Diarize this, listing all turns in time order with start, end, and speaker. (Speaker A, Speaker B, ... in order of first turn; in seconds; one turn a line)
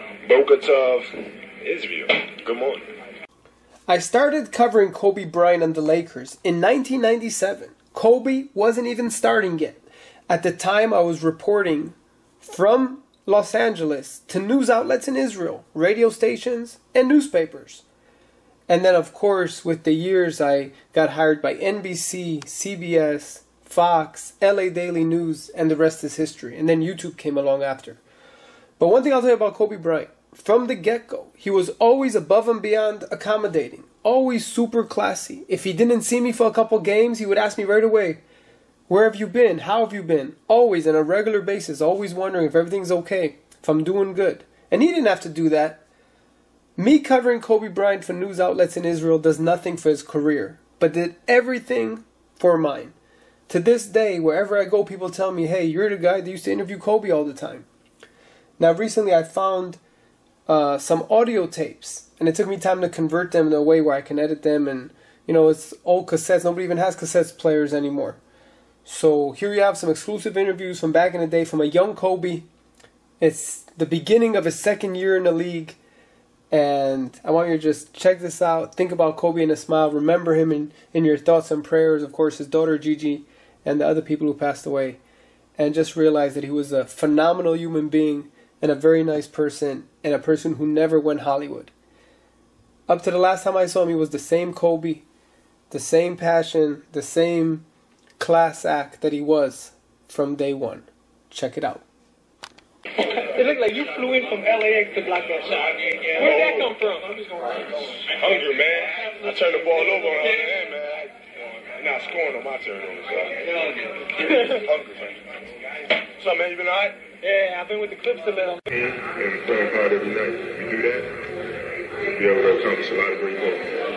Speaker A: 0.2-2.8
Speaker B: 3.9-17.8
Speaker B: 18.7-28.0
Speaker B: 28.8-38.2
Speaker B: 38.9-45.8
Speaker B: 46.8-53.0
Speaker B: 53.5-57.7
Speaker B: 58.6-59.8
Speaker B: 60.5-68.2
Speaker B: 68.8-72.5
Speaker B: 73.2-75.8
Speaker B: 76.5-85.0
Speaker B: 85.6-91.7
Speaker B: 92.9-95.0
Speaker B: 95.7-97.7
Speaker B: 98.2-101.8
Speaker C: 103.3-105.5
Speaker A: 106.1-106.7
Speaker C: 106.2-107.1
Speaker A: 108.0-113.5
Speaker A: 114.2-115.2
Speaker A: 116.0-117.0
Speaker C: 117.4-118.5
Speaker A: 118.7-121.1
Speaker A: 122.2-123.7